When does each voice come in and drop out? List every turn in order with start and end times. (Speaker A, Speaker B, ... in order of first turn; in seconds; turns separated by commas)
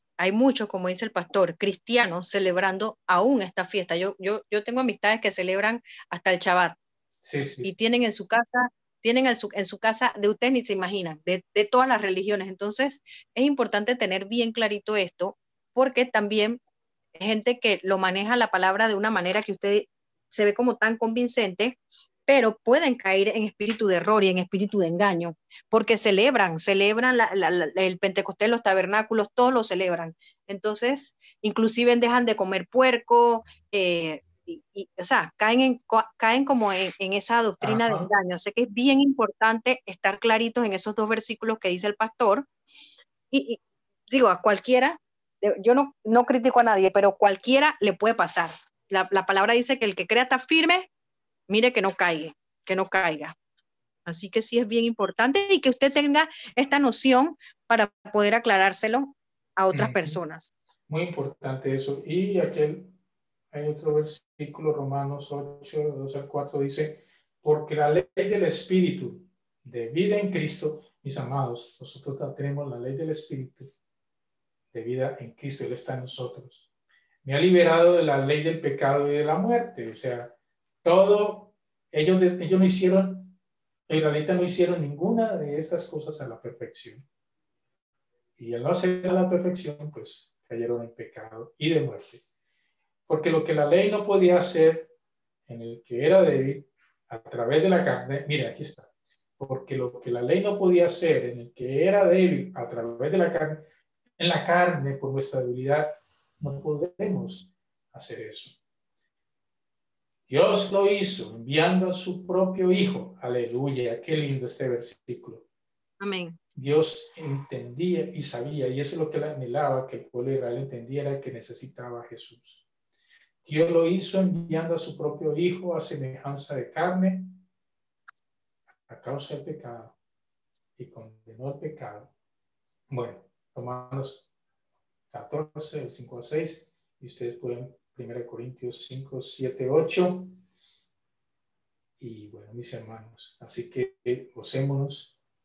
Speaker A: 0.2-6.8, Speaker B: 7.2-7.7, Speaker A: 7.6-16.6, Speaker A: 17.2-42.5, Speaker B: 37.6-38.1, Speaker A: 43.3-50.9, Speaker A: 51.5-53.3, Speaker A: 54.0-60.5, Speaker B: 59.7-60.2, Speaker B: 60.9-63.0, Speaker B: 63.5-73.8, Speaker B: 74.7-76.7, Speaker B: 77.2-83.3, Speaker B: 83.9-87.0, Speaker B: 88.4-92.2, Speaker B: 93.1-94.9, Speaker B: 95.5-103.6, Speaker B: 104.2-108.6, Speaker B: 110.3-115.5, Speaker A: 116.0-116.4, Speaker B: 116.5-122.7, Speaker B: 123.4-127.4, Speaker B: 128.9-129.9, Speaker B: 130.8-132.1, Speaker B: 132.9-134.3, Speaker B: 135.1-140.4, Speaker B: 142.0-145.2